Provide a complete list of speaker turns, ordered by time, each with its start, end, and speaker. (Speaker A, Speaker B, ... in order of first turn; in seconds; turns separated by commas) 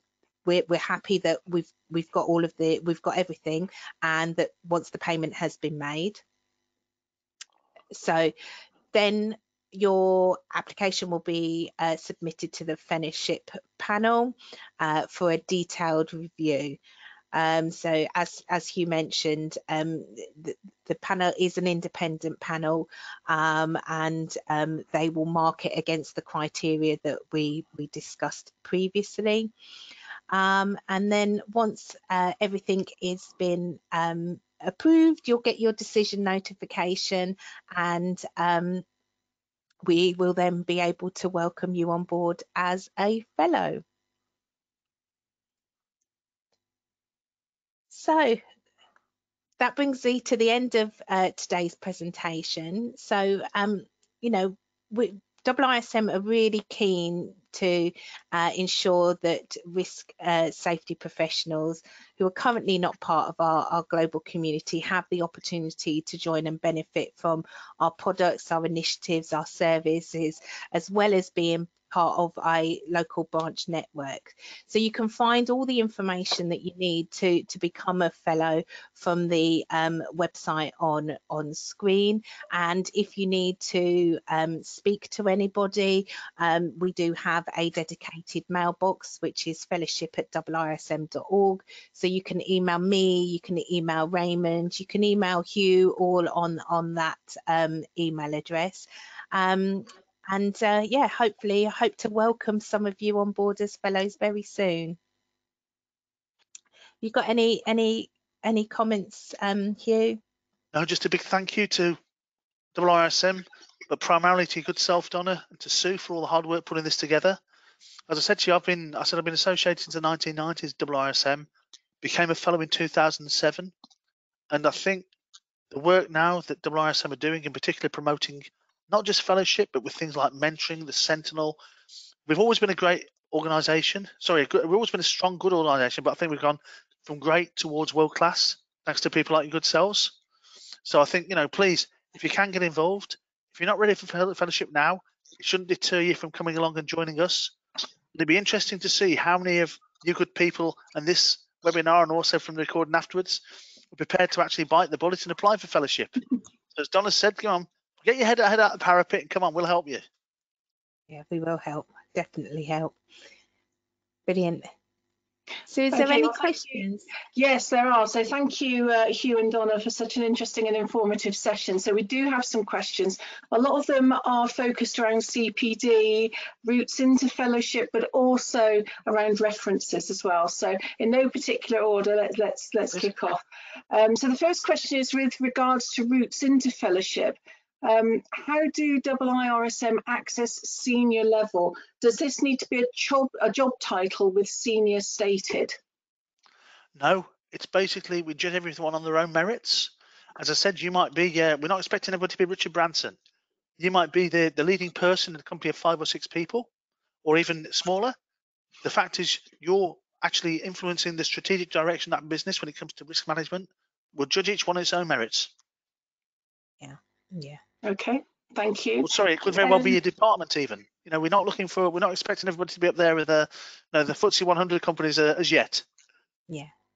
Speaker A: 0.5-6.2, Speaker A: 7.9-8.3, Speaker A: 8.9-16.8, Speaker A: 17.3-29.5, Speaker A: 30.3-38.9, Speaker A: 39.9-43.8, Speaker A: 47.9-48.4, Speaker A: 49.6-105.0, Speaker A: 107.0-110.2, Speaker B: 110.7-112.0, Speaker B: 112.7-117.4, Speaker B: 118.1-121.5, Speaker B: 122.0-123.7, Speaker B: 124.5-125.1, Speaker B: 125.7-131.6, Speaker B: 132.3-140.2, Speaker B: 140.8-147.6, Speaker B: 148.1-153.4, Speaker B: 153.9-156.2, Speaker B: 156.7-160.0, Speaker A: 161.1-163.0, Speaker A: 164.3-164.7, Speaker A: 165.7-167.1, Speaker C: 165.9-166.8, Speaker C: 167.3-195.8, Speaker B: 197.0-203.2, Speaker B: 203.8-206.7, Speaker B: 207.2-208.2, Speaker B: 208.8-215.5, Speaker A: 216.8-217.6, Speaker C: 217.8-219.1, Speaker B: 219.0-225.8, Speaker C: 219.6-220.0